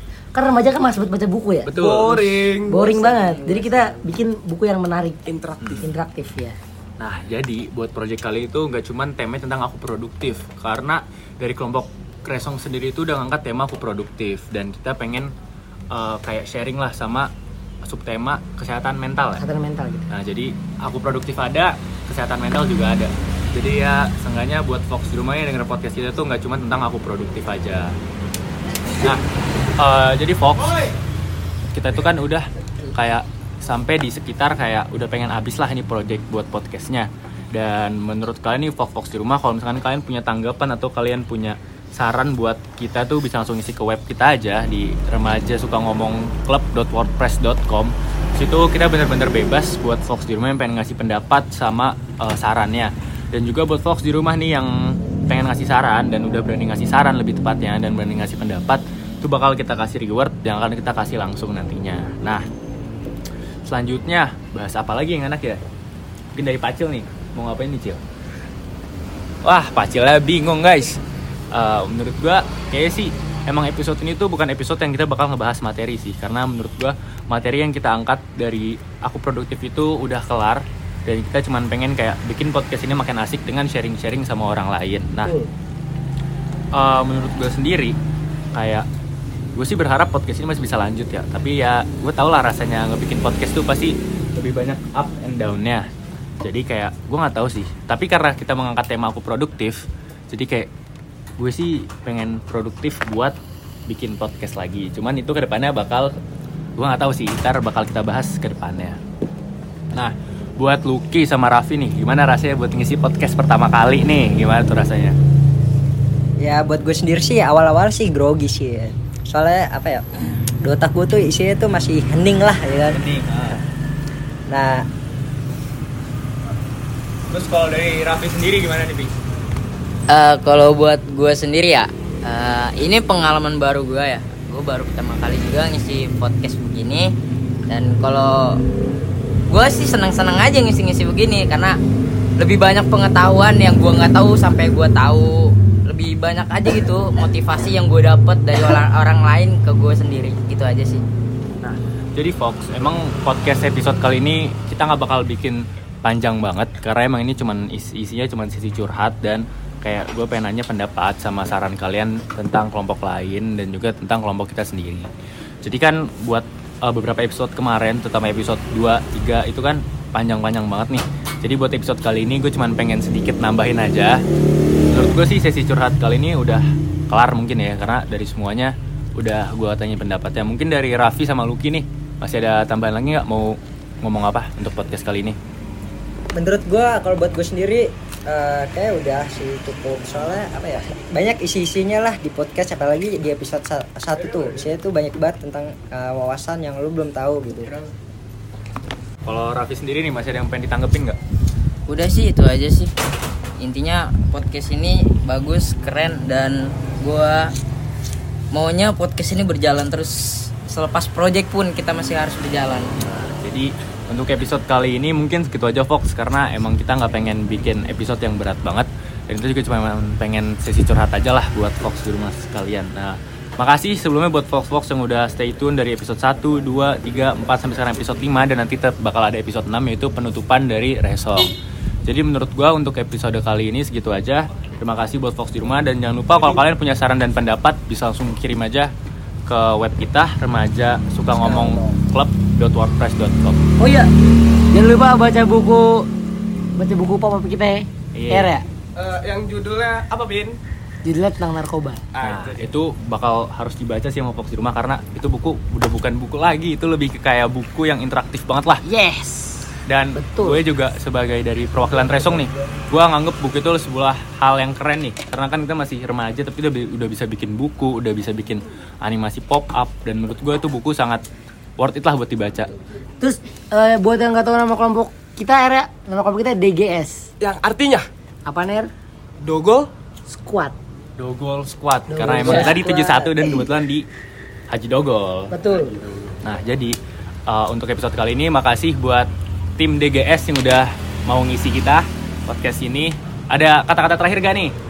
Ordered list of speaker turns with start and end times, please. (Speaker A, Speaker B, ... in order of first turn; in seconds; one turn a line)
Speaker A: 0.3-1.8
Speaker B: 1.6-2.2
Speaker C: 1.7-3.5
Speaker A: 2.6-5.2
Speaker C: 5.3-5.9
Speaker A: 5.8-6.6
Speaker B: 7.0-15.3
Speaker B: 15.9-17.3
Speaker B: 17.9-19.4
Speaker A: 19.4-20.1
Speaker B: 20.1-27.9
Speaker B: 29.8-30.9
Speaker B: 31.7-62.4
Speaker B: 63.7-65.6
Speaker B: 66.3-68.0
Speaker B: 69.4-71.0
Speaker B: 71.5-85.3
Speaker B: 86.7-88.0
Speaker B: 88.5-88.8
Speaker B: 89.6-95.9
Speaker B: 96.4-100.7
Speaker B: 101.4-103.4
Speaker B: 103.9-106.1
Speaker B: 106.8-109.0
Speaker B: 109.9-115.2
Speaker D: 116.4-123.0
Speaker B: 122.9-123.6
Speaker D: 124.5-124.8
Speaker B: 127.3-129.1
Speaker E: 130.1-137.1
Speaker E: 137.7-138.6
Speaker E: 139.5-141.8
Speaker E: 142.4-151.0
Speaker B: 151.6-165.1
Speaker B: 165.6-174.2
Speaker B: 174.9-185.4
Speaker D: 186.3-197.7
Speaker B: 199.2-201.2
Speaker E: 201.9-202.9
Speaker E: 203.6-207.5
Speaker E: 208.5-212.9
Speaker B: 212.9-231.5
Speaker B: 232.1-238.9
Speaker B: 239.5-243.6
Speaker A: 243.8-244.1
Speaker A: 244.7-246.1
Speaker A: 246.8-248.6
Speaker B: 248.2-248.5
Speaker C: 249.0-250.6
Speaker A: 251.1-252.1
Speaker C: 252.1-252.8
Speaker B: 252.2-258.8
Speaker A: 258.9-260.6
Speaker B: 259.9-271.2
Speaker B: 271.8-272.7
Speaker A: 273.2-277.3
Speaker C: 277.4-278.1
Speaker A: 278.5-278.9
Speaker C: 279.4-279.9
Speaker A: 280.3-280.8
Speaker B: 281.2-284.1
Speaker A: 282.1-283.6
Speaker B: 284.7-285.5
Speaker A: 285.5-285.9
Speaker B: 286.4-286.9
Speaker B: 287.5-294.7